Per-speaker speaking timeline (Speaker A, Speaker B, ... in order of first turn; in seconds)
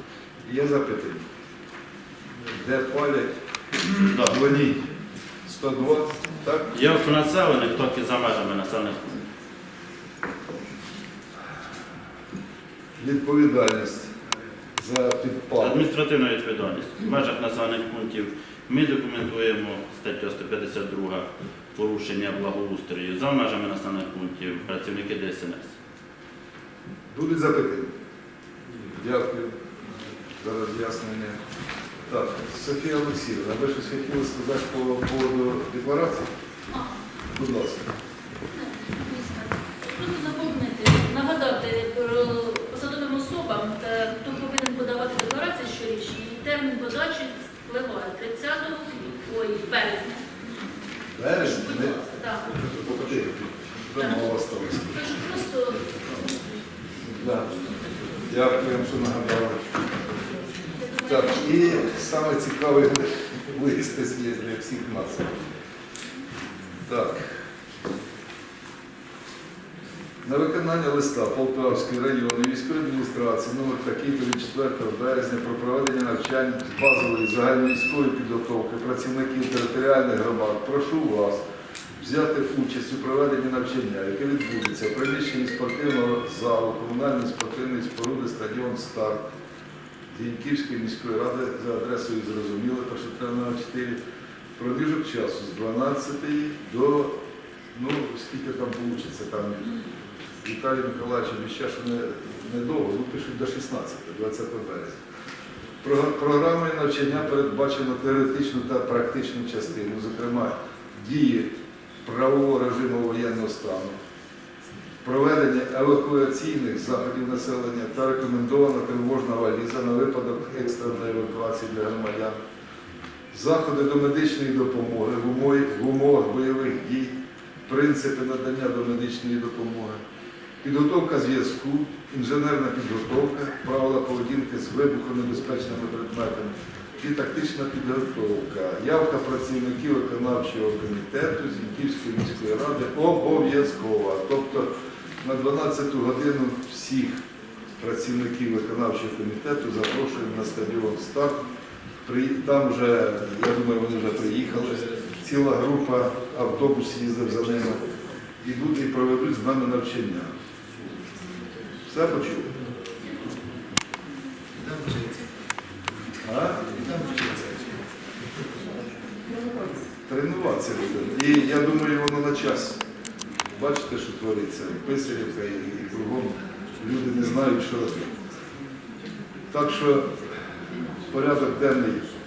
Speaker A: 0.4-1.2, 2.5-3.3, 3.8-4.9, 5.4-6.7, 13.0-14.1, 14.8-15.8, 27.1-27.9, 28.9-29.5, 30.4-31.4, 32.1-36.3, 37.3-37.9, 51.1-52.0, 52.5-55.0, 57.0-57.5, 58.2-59.6, 61.1-65.3, 66.8-67.3, 70.2-81.4, 82.0-89.2, 90.1-94.0, 94.6-97.2, 97.7-99.8, 100.4-105.0, 105.8-111.5, 112.0-114.0, 115.0-122.4, 123.3-127.1, 127.7-130.0, 130.6-147.2, 147.8-151.4, 152.0-157.9, 158.4-160.3, 161.8-162.6, 164.7-165.0, 166.2-167.8, 170.1-172.8, 173.6-178.1, 179.5-180.1, 181.1-182.1
Speaker B: 4.0-4.4, 6.7-9.2, 15.6-25.7
Speaker C: 36.7-37.0, 38.5-50.2, 51.4-52.5, 54.0-56.3, 60.8-61.9